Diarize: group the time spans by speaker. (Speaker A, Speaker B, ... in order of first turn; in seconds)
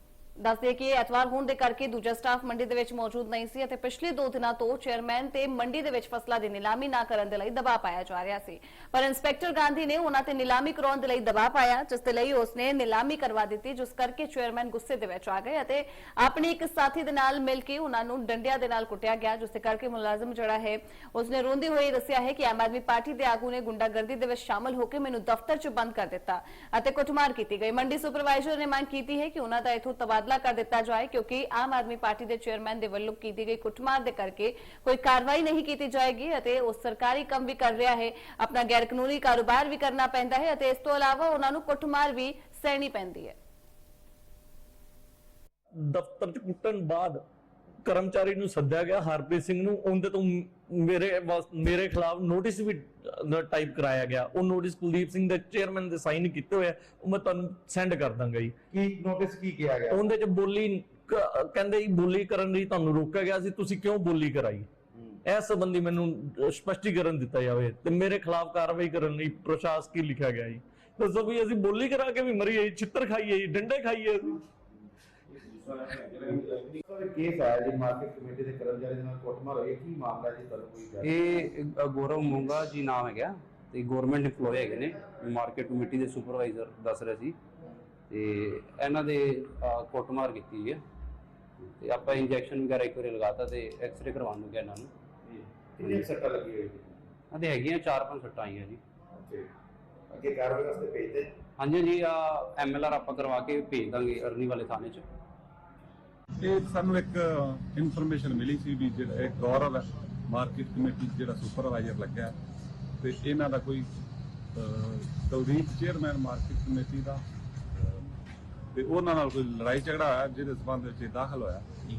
Speaker A: 0.4-43.4
Speaker B: 45.7-47.2, 47.9-58.5, 59.9-64.7, 65.2-74.4
Speaker C: 58.7-60.1, 75.4-81.5, 95.2-97.0, 99.2-99.5, 100.1-101.3
Speaker D: 81.0-87.4, 88.1-90.8, 91.8-94.9, 97.3-98.8, 101.6-105.0
Speaker E: 106.4-112.3, 113.0-113.9, 114.5-117.2, 117.8-118.1, 118.7-121.7